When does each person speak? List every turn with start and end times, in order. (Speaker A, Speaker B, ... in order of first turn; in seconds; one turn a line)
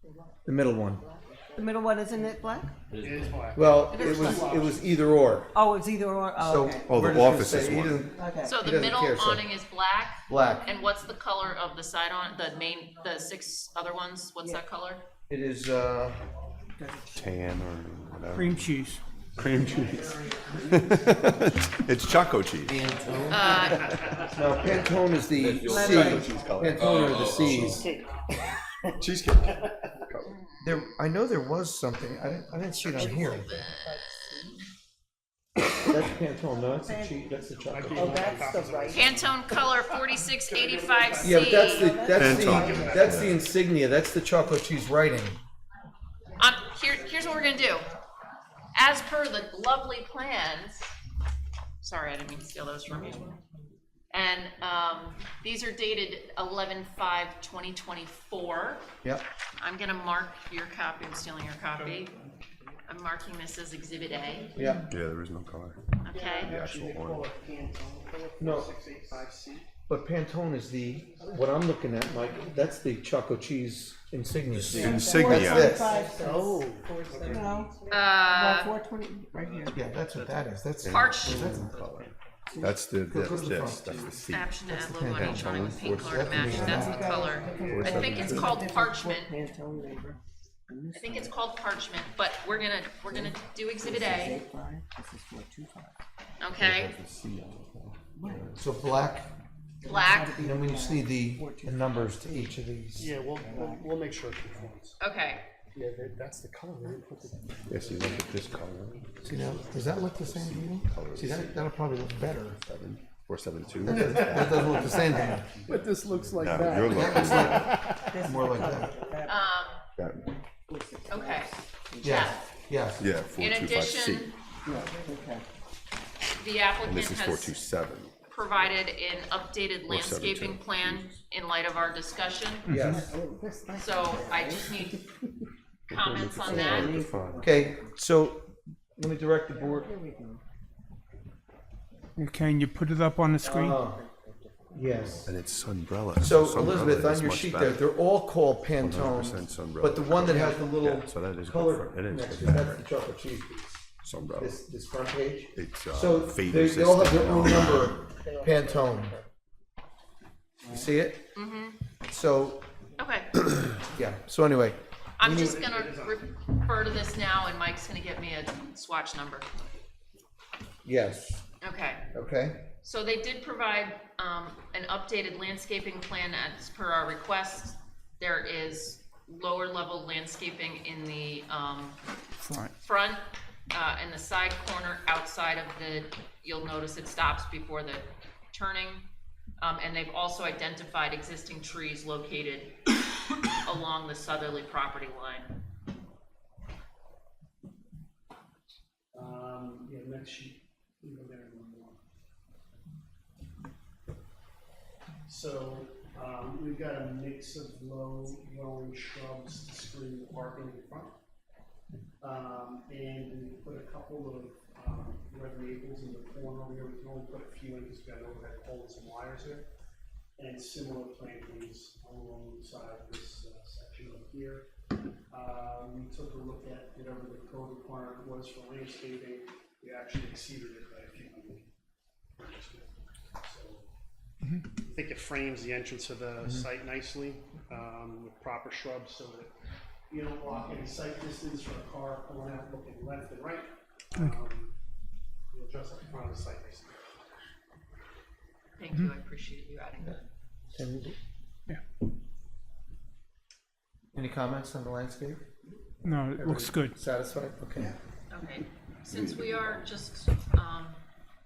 Speaker A: 0.5-1.1
Speaker B: 1.5-2.8
Speaker C: 3.0-5.1
Speaker A: 3.5-5.6
Speaker D: 3.9-4.4
Speaker B: 4.1-4.4
Speaker B: 5.5-7.0
Speaker A: 6.4-9.5
Speaker E: 6.9-8.1
Speaker B: 8.1-8.5
Speaker D: 8.4-15.0
Speaker A: 10.3-10.7
Speaker A: 15.3-16.2
Speaker B: 16.8-17.2
Speaker E: 17.1-18.6
Speaker F: 18.3-19.0
Speaker C: 19.4-21.5
Speaker E: 19.4-27.9
Speaker A: 22.7-23.6
Speaker C: 22.7-30.0
Speaker D: 23.3-23.9
Speaker A: 24.3-27.9
Speaker B: 25.6-26.4
Speaker E: 29.0-30.3
Speaker D: 30.2-30.6
Speaker A: 30.6-33.6
Speaker D: 32.8-34.5
Speaker B: 33.2-34.3
Speaker A: 35.8-38.5
Speaker B: 36.9-37.3
Speaker C: 37.5-43.5
Speaker B: 37.9-39.1
Speaker D: 38.9-42.0
Speaker A: 41.2-45.4
Speaker B: 41.8-43.0
Speaker E: 42.1-43.4
Speaker D: 46.4-47.9
Speaker D: 48.7-50.9
Speaker D: 51.8-53.4
Speaker D: 54.1-58.9
Speaker D: 59.6-62.1
Speaker D: 62.9-64.5
Speaker A: 64.5-64.8
Speaker E: 64.9-65.8
Speaker D: 66.0-66.5
Speaker C: 66.1-69.7
Speaker E: 66.5-67.3
Speaker A: 68.4-68.7
Speaker A: 69.9-76.0
Speaker E: 74.5-75.7
Speaker B: 74.7-79.8
Speaker C: 76.1-77.7
Speaker D: 77.9-78.7
Speaker A: 79.7-81.7
Speaker E: 80.8-84.5
Speaker D: 80.9-81.6
Speaker C: 81.7-82.1
Speaker A: 83.1-87.2
Speaker D: 84.3-89.3
Speaker E: 85.1-88.6
Speaker B: 86.4-91.3
Speaker C: 86.5-88.6
Speaker D: 91.0-94.4
Speaker B: 93.1-96.0
Speaker D: 96.4-97.0
Speaker E: 96.6-98.6
Speaker B: 98.2-98.5
Speaker A: 98.6-99.3
Speaker B: 99.8-102.5
Speaker D: 99.8-100.3
Speaker A: 100.3-103.1
Speaker C: 103.0-105.0
Speaker B: 103.4-103.9
Speaker D: 105.0-105.4
Speaker C: 105.7-110.0
Speaker E: 107.7-111.5
Speaker A: 109.2-112.6
Speaker E: 112.5-114.8
Speaker A: 113.8-115.5
Speaker C: 113.9-115.0
Speaker B: 114.9-115.5
Speaker C: 115.5-118.1
Speaker E: 116.3-117.7
Speaker A: 116.8-119.0
Speaker B: 118.1-119.4
Speaker D: 119.3-119.8
Speaker E: 120.0-120.3
Speaker B: 120.7-122.4
Speaker D: 121.1-122.4
Speaker A: 122.0-123.1
Speaker E: 123.0-124.3
Speaker D: 123.4-124.4
Speaker B: 124.7-125.5
Speaker D: 126.4-127.6
Speaker E: 126.8-128.1
Speaker D: 128.3-132.8
Speaker E: 129.9-131.1
Speaker F: 132.7-133.1
Speaker A: 132.7-133.1
Speaker B: 132.9-135.0
Speaker D: 133.8-135.0
Speaker D: 135.9-137.0
Speaker E: 135.9-137.4
Speaker B: 136.4-137.9
Speaker A: 137.4-139.9
Speaker B: 139.5-140.4
Speaker F: 142.2-143.8
Speaker A: 143.4-144.0
Speaker B: 143.8-145.2
Speaker A: 144.7-145.3
Speaker E: 145.2-147.8
Speaker A: 146.2-153.8
Speaker E: 148.7-152.8
Speaker E: 154.0-154.6
Speaker A: 154.4-159.2
Speaker E: 155.5-158.1
Speaker A: 160.6-161.3
Speaker D: 161.3-161.8
Speaker A: 162.1-162.7
Speaker D: 163.0-163.3
Speaker A: 163.9-165.6
Speaker D: 165.2-169.5
Speaker C: 165.3-166.3
Speaker A: 170.8-171.4
Speaker D: 171.6-172.1
Speaker A: 172.1-172.7
Speaker D: 172.8-182.0
Speaker F: 182.4-182.7
Speaker D: 182.8-189.1
Speaker D: 189.6-192.8
Speaker D: 193.6-195.6
Speaker C: 199.1-202.0
Speaker C: 205.3-211.1
Speaker C: 212.2-219.7
Speaker C: 220.4-224.7
Speaker C: 225.3-231.7
Speaker C: 232.4-233.9
Speaker C: 234.7-239.5
Speaker C: 240.1-244.7
Speaker C: 245.5-246.9
Speaker D: 248.8-250.2
Speaker A: 250.8-251.2
Speaker A: 254.1-255.4
Speaker F: 256.0-257.0
Speaker A: 256.3-257.9
Speaker D: 258.3-261.0
Speaker E: 259.1-259.9